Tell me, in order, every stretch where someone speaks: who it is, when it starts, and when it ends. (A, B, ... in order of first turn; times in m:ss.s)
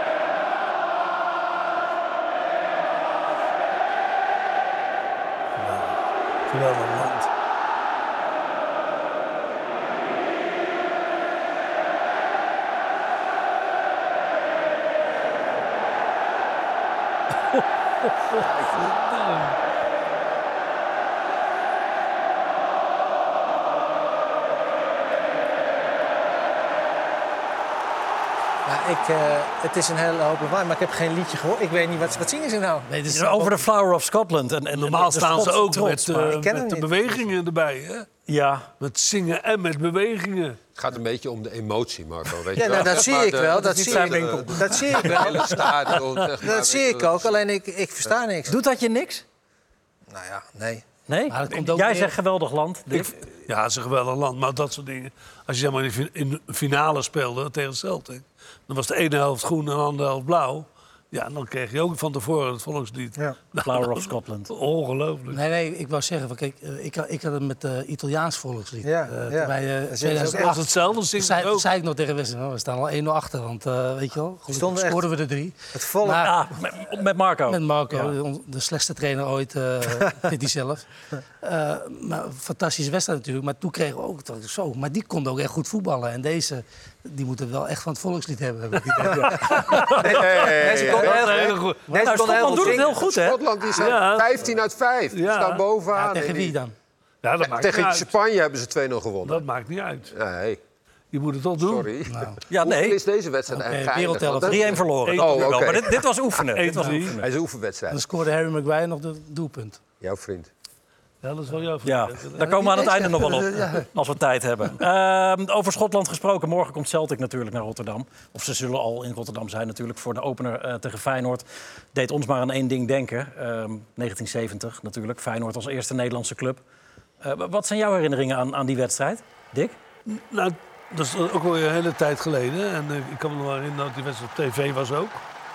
0:05.6-0:07.3 A
0:18.3-0:19.6 A
0:18.4-0:19.0 B
0:28.7-0:32.9 C
0:32.9-0:33.6 D
0:33.1-0:36.3 E
0:34.8-0:38.1 A
0:36.2-0:37.2 C
0:38.3-0:38.7 E
0:38.8-0:40.6 A
0:40.8-0:47.3 B
0:42.6-0:45.7 C
0:43.9-0:44.6 E
0:46.4-0:48.6 C
0:48.5-0:49.2 E
0:50.1-0:50.8 C
0:51.1-0:53.2 E
0:51.3-0:52.2 D
0:53.5-1:05.4 A
1:03.6-1:04.5 E
1:05.3-1:16.4 D
1:08.8-1:10.6 C
1:10.2-1:11.7 A
1:14.5-1:15.1 C
1:15.7-1:16.3 C
1:16.2-1:18.1 E
1:17.5-1:20.9 D
1:21.4-1:29.9 D
1:29.5-1:33.0 C
1:29.9-1:31.5 B
1:30.8-1:31.9 A
1:32.0-1:33.4 E
1:32.3-1:36.6 B
1:33.8-1:34.5 A
1:35.1-1:35.6 A
1:35.9-1:36.7 D
1:37.2-1:38.1 A
1:37.4-1:39.5 B
1:39.2-1:40.1 A
1:40.1-1:40.6 B
1:41.1-1:41.9 A
1:41.6-1:46.0 B
1:42.1-1:42.4 D
1:42.5-1:43.0 E
1:43.5-1:44.8 D
1:44.4-1:47.3 E
1:45.0-1:45.9 A
1:46.5-1:47.2 A
1:47.2-1:48.0 B
1:47.9-1:49.8 D
1:50.0-1:50.5 B
1:51.2-1:52.6 A
1:51.8-2:06.6 E
1:52.4-1:53.9 D
2:07.2-2:09.8 E
2:10.1-2:15.2 A